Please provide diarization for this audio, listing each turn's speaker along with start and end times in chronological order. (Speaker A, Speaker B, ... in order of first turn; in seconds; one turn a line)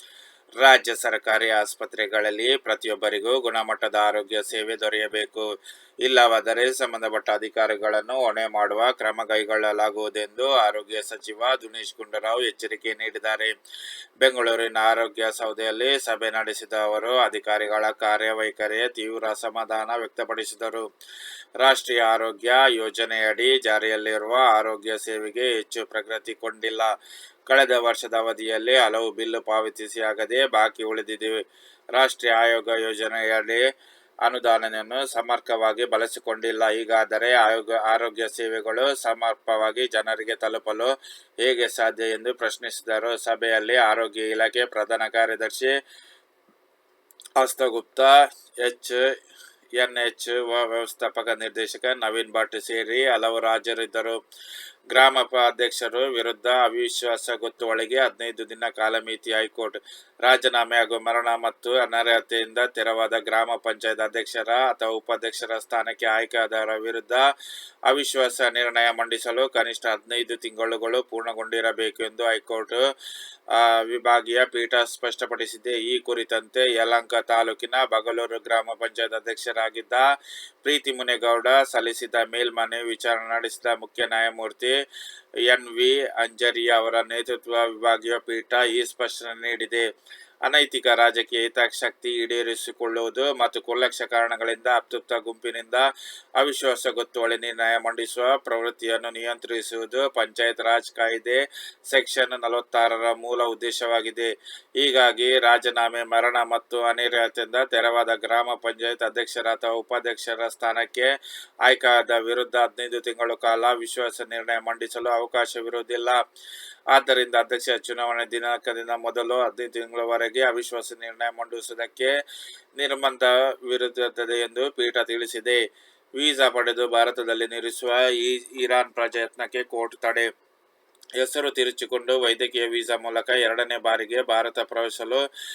Speaker A: 0.6-5.5
Speaker A: 6.0-13.5
Speaker A: 14.2-20.9
Speaker A: 21.6-26.9
Speaker A: 27.5-31.4
Speaker A: 31.9-33.6
Speaker A: 34.2-40.9
Speaker A: 41.4-45.7
Speaker A: 47.4-49.0
Speaker A: 49.7-54.2
Speaker A: 54.9-67.2
Speaker A: 67.9-72.8
Speaker A: 73.5-80.0
Speaker A: 80.6-84.7
Speaker A: 85.5-89.8
Speaker A: 90.4-95.8
Speaker A: 96.4-111.1
Speaker A: 111.7-116.2
Speaker A: 116.9-122.1
Speaker A: 122.8-125.6
Speaker A: 126.2-130.3
Speaker A: 131.2-135.2